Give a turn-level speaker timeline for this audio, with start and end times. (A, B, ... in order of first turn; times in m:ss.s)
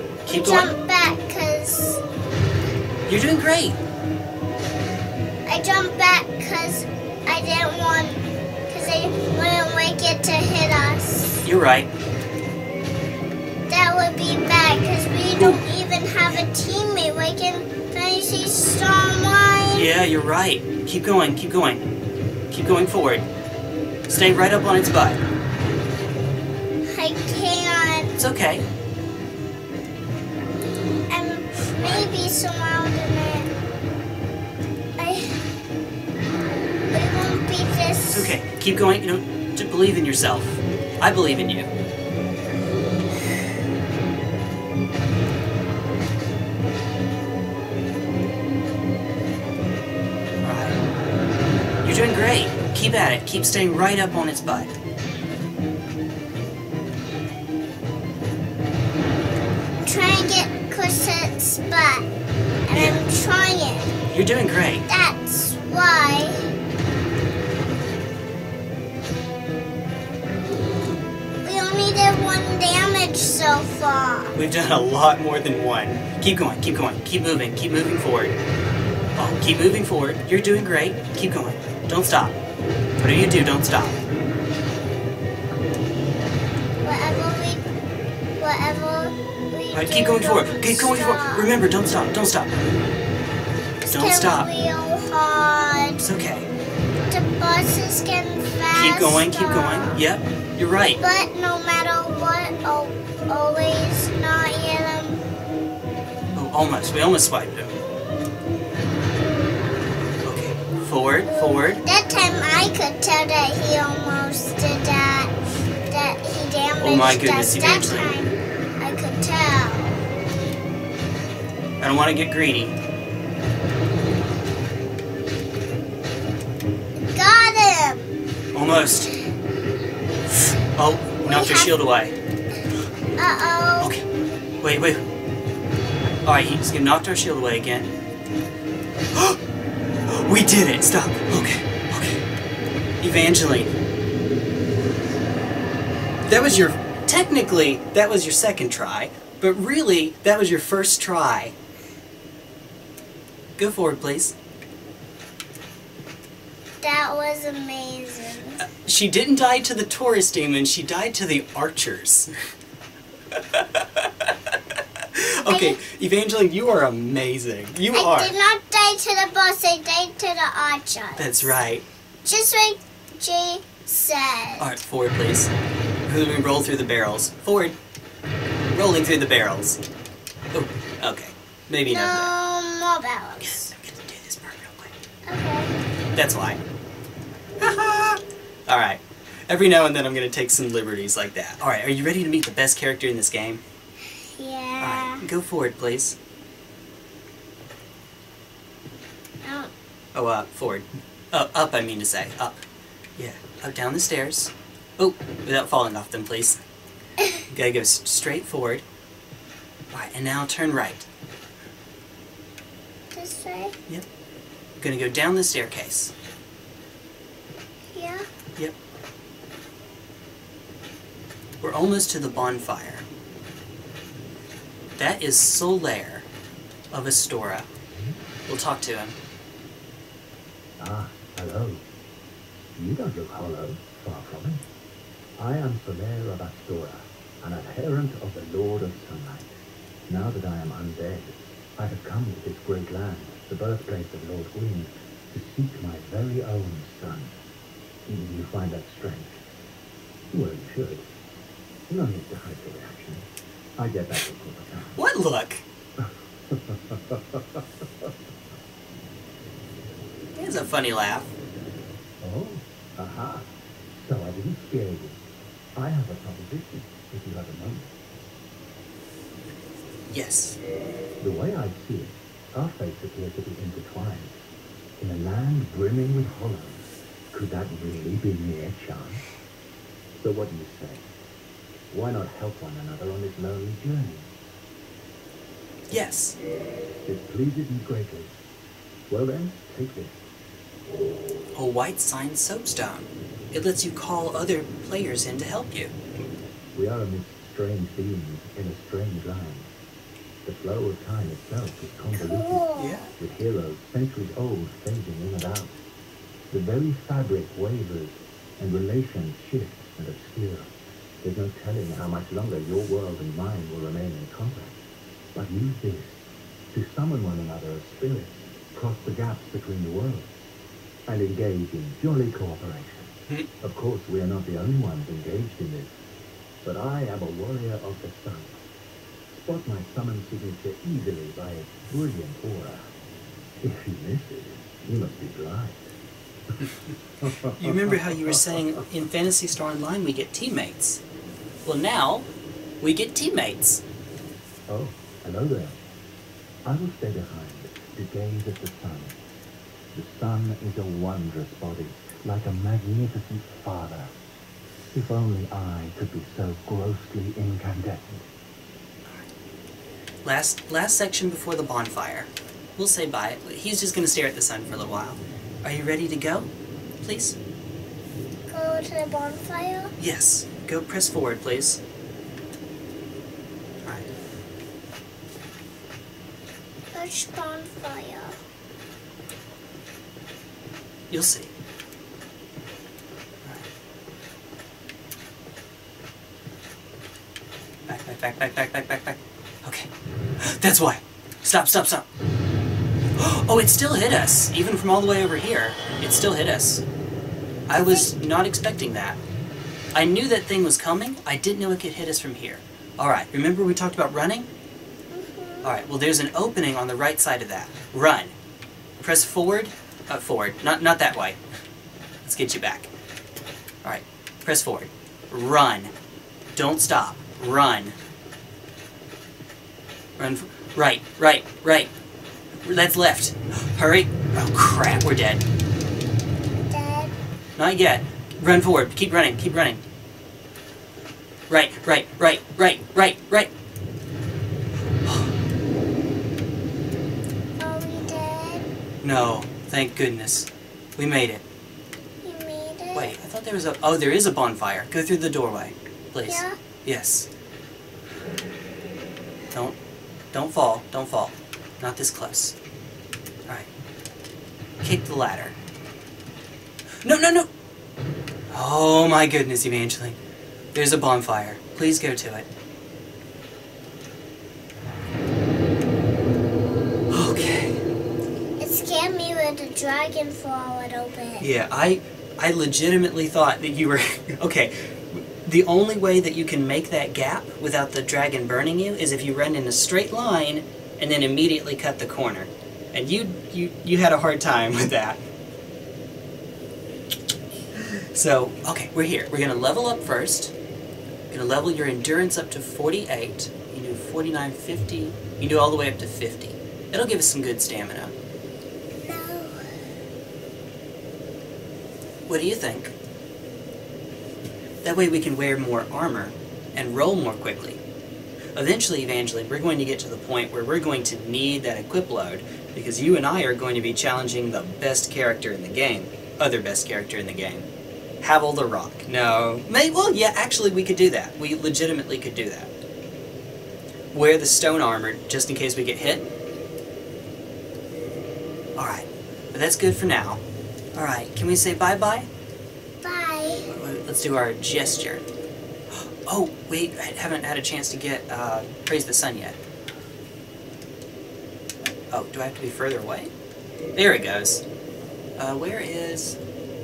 0:00.2-0:00.7 A
0:00.3-0:02.0 B
0:03.1-0:03.8 A
0:05.4-0:11.4 B
0:11.4-0:11.9 A
0:13.7-0:19.9 B
0:15.3-0:15.6 A
0:19.7-0:21.9 A
0:22.5-0:23.3 A
0:24.1-0:25.2 A
0:26.9-0:28.2 B
0:28.2-0:28.7 A
0:31.1-0:33.6 B
0:31.8-0:32.1 A
0:35.0-0:35.4 B
0:36.9-0:38.4 B
0:38.1-0:41.7 A
0:50.4-0:50.8 A
0:51.8-0:54.7 A
0:59.7-1:02.1 B
1:02.7-1:04.0 B
1:02.7-1:03.0 A
1:04.1-1:04.8 A
1:04.9-1:06.5 B
1:11.4-1:14.4 B
1:14.4-1:18.4 A
1:19.2-1:22.4 A
1:23.0-1:24.0 A
1:26.8-1:27.6 B
1:28.4-1:31.5 B
1:29.7-1:32.6 A
1:33.8-1:36.0 B
1:33.9-1:34.5 A
1:36.0-1:36.5 A
1:37.1-1:40.0 B
1:38.7-1:41.0 A
1:41.0-1:45.2 B
1:46.3-1:47.8 A
1:50.2-1:51.8 A
1:51.2-1:55.3 B
1:55.9-2:00.0 B
1:56.8-1:58.1 A
2:01.8-2:02.8 A
2:07.0-2:08.1 B
2:08.5-2:09.1 A
2:10.8-2:12.2 A
2:11.2-2:11.7 B
2:13.2-2:13.9 B
2:14.6-2:15.0 A
2:16.2-2:17.9 A
2:19.1-2:19.4 A
2:20.1-2:22.3 A
2:23.0-2:23.7 A
2:26.3-2:31.5 A
2:33.6-2:34.4 A
2:36.8-2:38.6 B
2:38.6-2:42.3 A
2:43.3-2:48.4 A
2:45.5-2:45.8 B
2:47.9-2:51.5 B
2:51.2-2:51.9 A
2:52.2-2:54.7 B
2:54.6-2:55.5 A
2:56.0-2:57.8 A
2:58.7-2:59.8 A
3:00.5-3:02.3 A
3:01.9-3:03.7 B
3:03.4-3:04.9 A
3:05.3-3:05.8 B
3:06.1-3:06.6 A
3:07.6-3:13.6 A
3:14.1-3:15.2 B
3:14.8-3:16.2 A
3:19.4-3:19.7 B
3:20.1-3:22.6 A
3:23.2-3:26.6 A
3:27.5-3:28.8 A
3:29.9-3:31.1 A
3:33.1-3:33.8 B
3:34.8-3:36.1 A
3:37.9-3:38.3 B
3:41.6-3:43.1 A
3:45.0-3:46.3 A
3:46.9-3:47.7 A
3:48.5-3:49.2 A
3:50.8-3:51.8 C
3:52.8-3:54.6 C
3:55.4-3:59.5 C
4:00.1-4:07.4 C
4:08.1-4:09.4 C
4:10.3-4:11.1 C
4:11.9-4:15.0 C
4:15.0-4:15.6 A
4:16.0-4:18.1 C
4:20.4-4:21.3 A
4:22.2-4:25.2 C
4:25.8-4:27.9 C
4:30.1-4:30.6 A
4:31.2-4:34.4 C
4:35.0-4:39.2 C
4:40.2-4:41.1 C
4:41.9-4:44.3 C
4:45.9-4:46.4 A
4:47.0-4:48.3 C
4:49.1-4:50.2 C
4:51.5-4:55.9 A
4:56.7-4:59.7 C
5:00.4-5:05.8 C
5:02.2-5:03.1 B
5:02.8-5:03.1 A
5:06.5-5:14.8 C
5:15.3-5:20.3 C
5:21.1-5:25.9 C
5:26.6-5:28.6 C
5:29.4-5:32.9 C
5:33.6-5:35.8 C
5:36.5-5:38.8 C
5:37.5-5:41.0 A
5:41.6-5:42.3 A
5:42.8-5:43.8 A
5:44.7-5:45.8 C
5:46.6-5:49.2 C
5:49.9-5:54.1 C
5:54.9-5:58.3 C
6:00.2-6:06.5 A
6:07.0-6:07.4 A
6:08.5-6:10.0 B
6:10.0-6:11.8 A
6:16.9-6:18.4 B
6:21.1-6:21.5 A
6:27.9-6:32.1 A
6:33.2-6:36.8 A
6:37.7-6:39.2 A
6:37.7-6:38.1 B
6:39.9-6:44.5 A
6:45.1-6:45.8 B
6:45.6-6:48.4 A
6:49.0-6:51.4 A
6:52.2-6:52.9 A
6:53.8-6:55.9 A
6:56.5-6:58.0 A
7:00.2-7:01.9 A
7:02.6-7:05.4 A
7:06.7-7:07.1 B
7:07.6-7:09.8 A
7:11.5-7:13.5 A
7:15.0-7:15.3 A
7:17.6-7:18.7 B
7:19.0-7:21.4 A
7:22.2-7:23.2 B
7:22.9-7:27.3 A
7:26.2-7:26.6 B
7:29.5-7:29.8 A
7:30.3-7:32.6 A
7:34.8-7:35.6 A
7:37.0-7:37.5 A
7:38.5-7:40.2 A
7:40.7-7:42.5 A
7:47.1-7:47.8 A
7:48.6-7:51.5 B
7:51.4-8:05.2 A
8:07.8-8:10.5 A
8:11.3-8:18.1 A
8:19.0-8:19.8 B
8:22.3-8:22.9 A
8:24.8-8:27.8 A
8:28.6-8:37.7 A
8:38.2-8:42.7 A
8:44.1-8:46.3 A
8:48.8-8:50.4 A
8:50.9-8:52.3 A
8:53.0-8:53.7 B
8:53.7-8:55.2 A
8:55.9-8:59.6 A
9:01.8-9:03.3 A
9:04.0-9:04.6 A
9:05.4-9:06.4 A